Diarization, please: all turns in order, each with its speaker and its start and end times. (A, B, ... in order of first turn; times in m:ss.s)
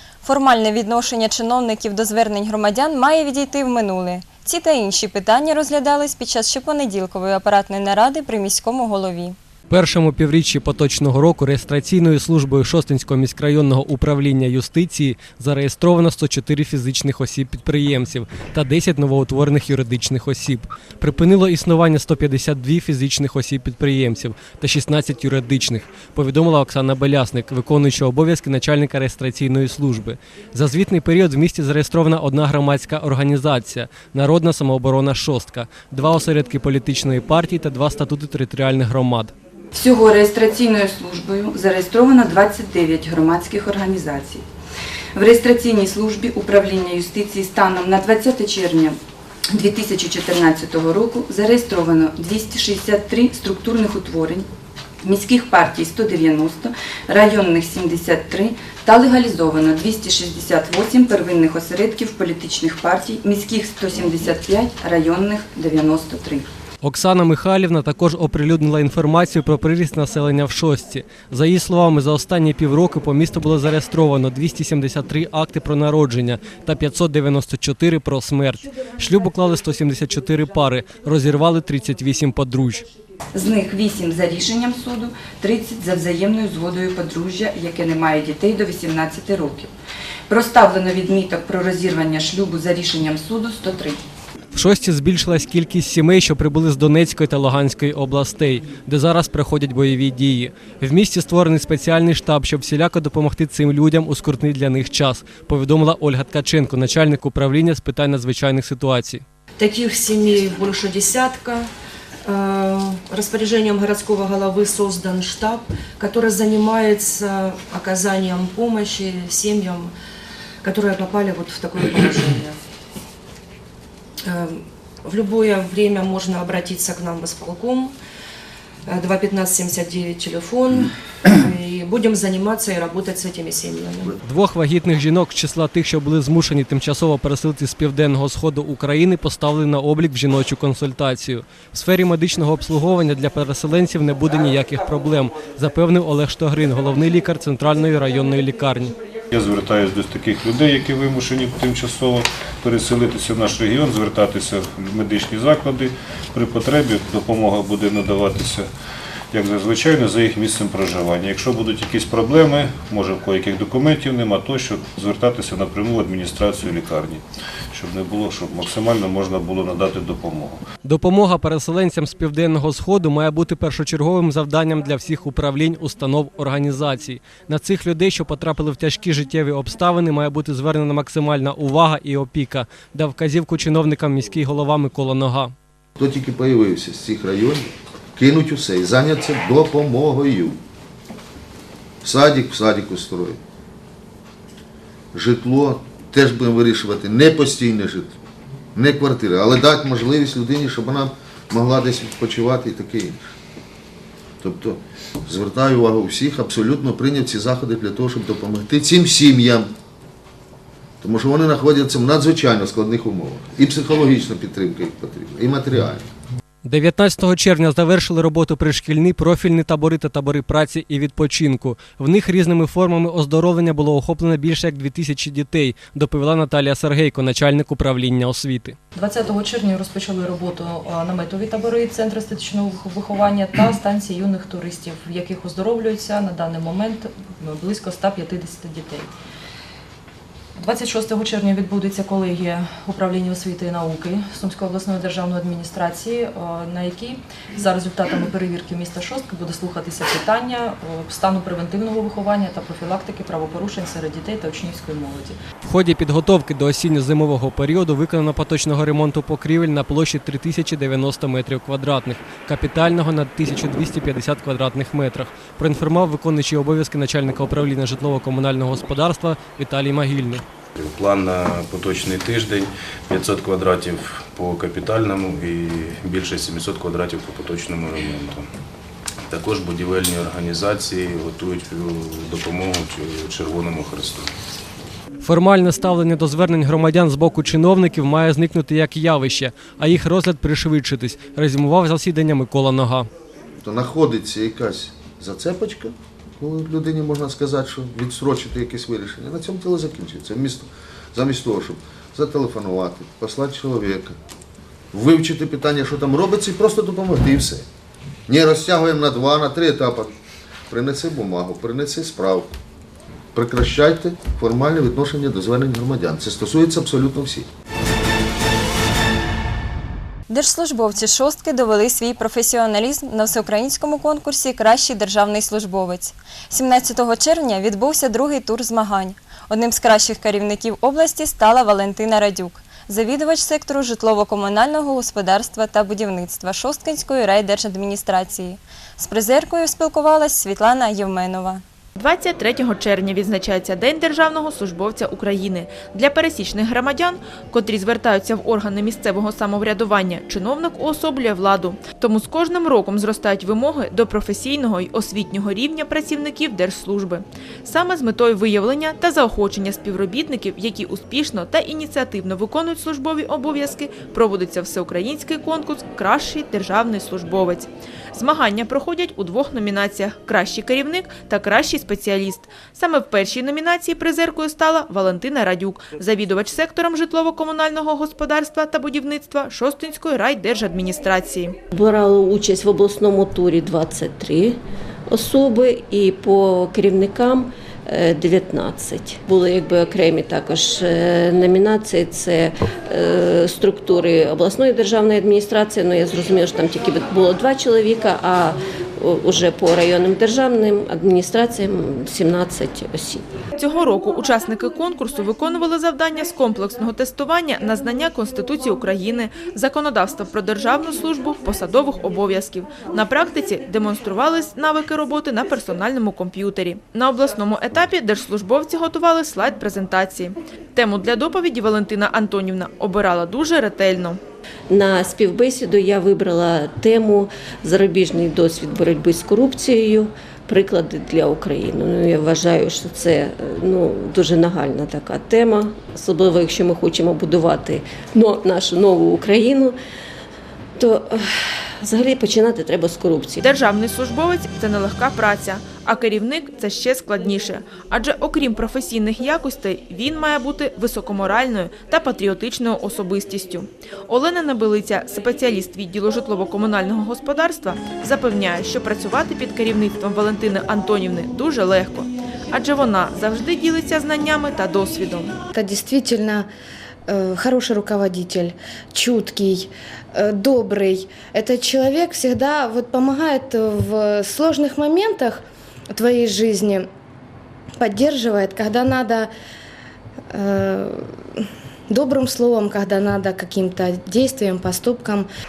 0:00.2-0:09.4 A
0:09.7-0:39.3 B
0:39.7-0:44.4 C
0:45.1-0:49.0 C
0:49.5-0:54.5 C
0:55.0-1:06.5 C
1:06.8-1:22.9 B
1:23.3-1:29.7 C
1:30.3-1:34.0 C
1:34.5-1:49.2 B
1:49.6-1:51.6 D
1:52.3-1:59.9 D
2:00.6-2:02.5 D
2:04.3-2:07.9 D
2:08.9-2:10.8 D
2:11.5-2:14.0 D
2:14.2-2:28.9 B
2:29.3-2:38.7 E
2:39.3-2:47.2 E
2:47.7-2:50.6 E
2:50.8-3:05.5 B
3:06.0-3:10.6 F
3:12.0-3:13.4 F
3:15.1-3:18.1 F
3:18.7-3:23.3 F
3:24.4-3:29.7 F
3:31.0-3:36.1 F
3:36.6-3:48.8 B
3:48.9-3:59.2 G
4:00.6-4:15.4 G
4:15.6-4:30.4 B
4:30.8-4:38.4 H
4:39.3-4:44.3 H
4:45.2-4:53.1 B
4:53.6-5:04.2 F
5:04.9-5:07.6 F
5:08.3-5:10.1 F
5:10.7-5:12.5 F
5:13.3-5:17.5 F
5:20.3-5:41.6 A
5:42.0-6:21.6 I
6:21.8-6:24.6 J
6:25.1-6:43.2 J
6:43.6-7:04.2 I
7:04.7-7:19.7 J
7:20.8-7:21.1 J
7:21.8-7:23.4 J
7:23.4-7:45.4 I
7:45.5-7:46.5 K
7:47.1-7:56.9 K
7:57.8-7:59.3 K
8:00.3-8:05.3 K